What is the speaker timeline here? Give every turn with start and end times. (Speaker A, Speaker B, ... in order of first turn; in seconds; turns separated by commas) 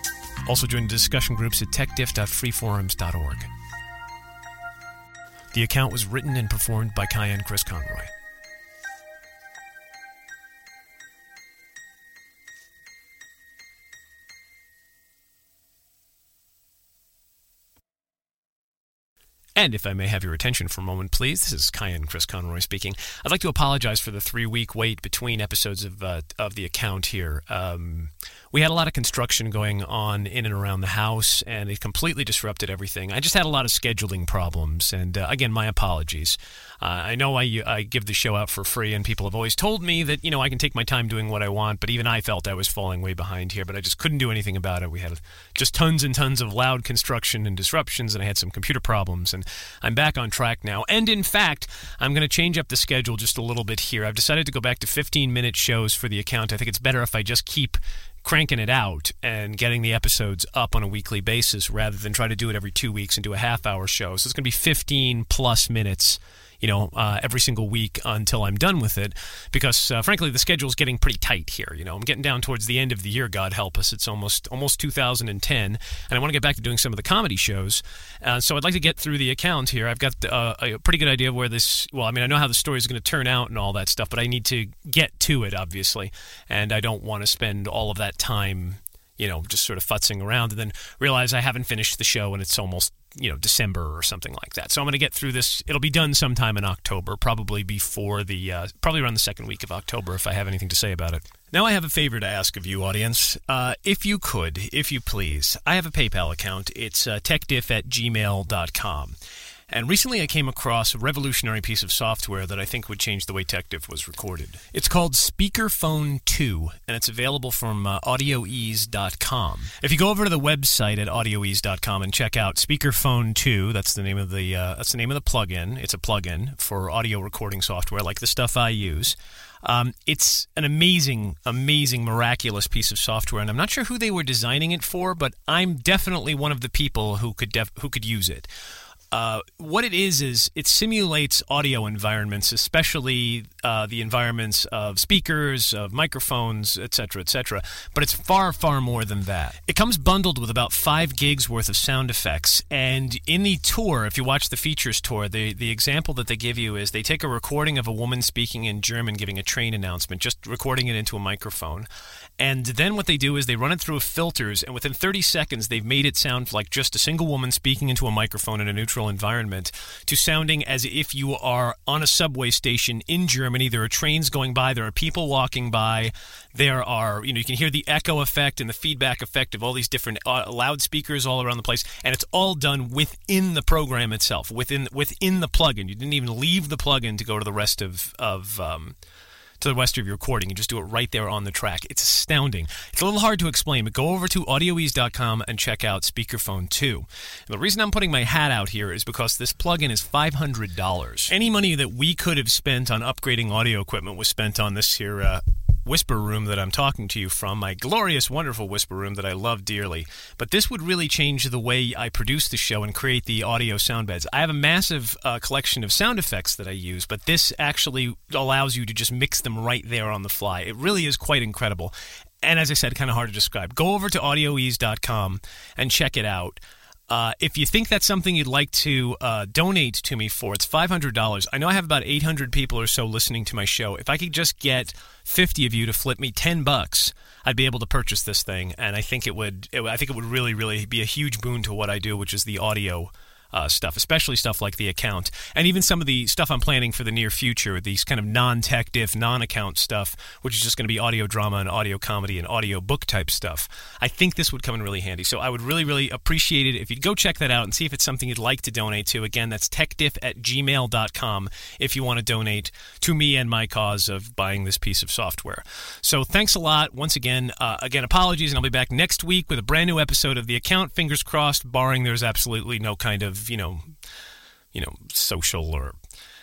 Speaker A: 0.4-3.5, Speaker A: 5.5-8.1, Speaker A: 19.6-109.2, Speaker A: 109.7-138.5, Speaker A: 139.1-161.9, Speaker A: 162.4-189.0, Speaker A: 189.6-273.9, Speaker A: 274.7-276.0